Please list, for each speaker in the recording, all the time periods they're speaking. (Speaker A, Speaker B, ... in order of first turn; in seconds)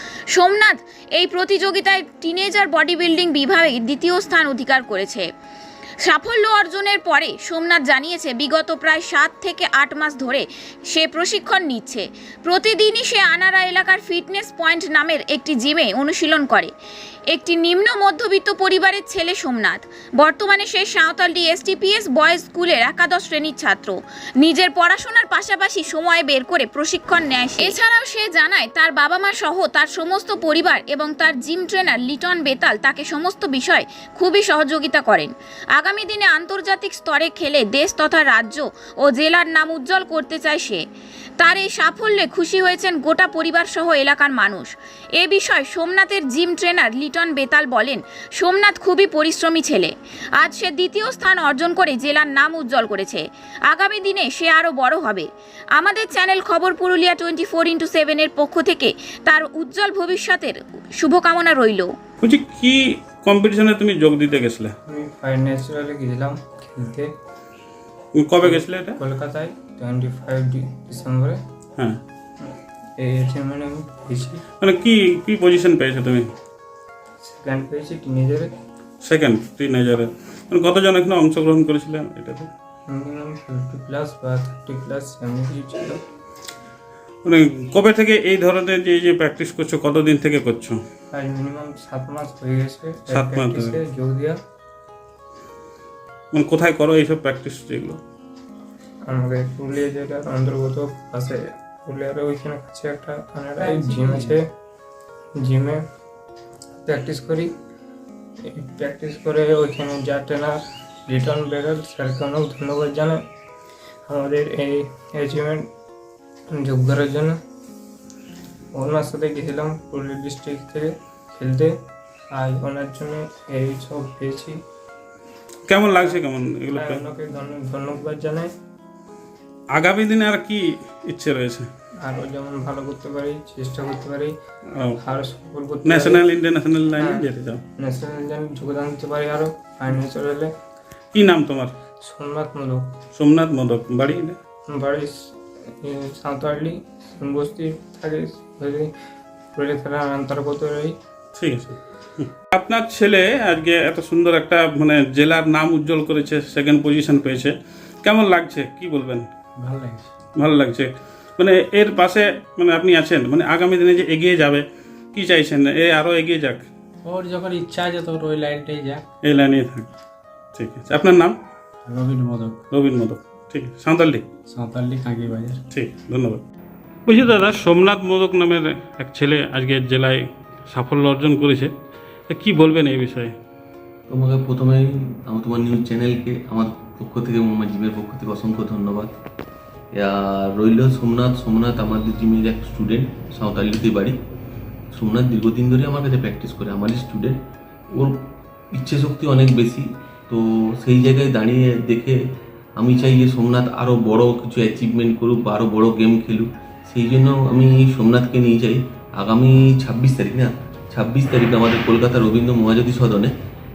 Speaker A: 0.3-5.3, 6.0-16.7, 17.3-40.8, 41.4-61.9
Speaker B: 62.2-64.7, 68.2-69.0, 74.6-76.3, 79.0-82.5, 87.2-90.8, 93.1-93.8, 96.3-98.0, 125.7-127.0, 129.7-131.7, 135.8-137.6, 141.1-141.7, 143.2-144.4, 151.4-159.3, 160.4-166.7, 169.2-169.9, 170.6-171.4, 172.7-174.2, 175.7-176.4, 177.1-181.7, 182.3-183.3
Speaker C: 64.9-67.1, 68.4-71.4, 72.4-74.4, 77.2-78.5, 82.9-86.0, 91.1-94.4, 99.1-104.4, 105.4-105.8, 106.9-107.5, 108.5-113.2, 114.1-115.7, 116.5-117.3, 118.7-121.7, 122.3-124.6, 126.7-128.5, 132.0-134.3, 135.0-136.2, 137.0-137.3, 137.8-140.5, 142.0-142.8, 144.7-145.1, 145.8-148.9, 149.6-150.9
Speaker D: 103.6-104.4, 159.6-160.1, 167.1-169.0, 171.9-172.6, 174.5-175.6
Speaker E: 184.1-189.1, 189.9-194.2, 194.9-213.3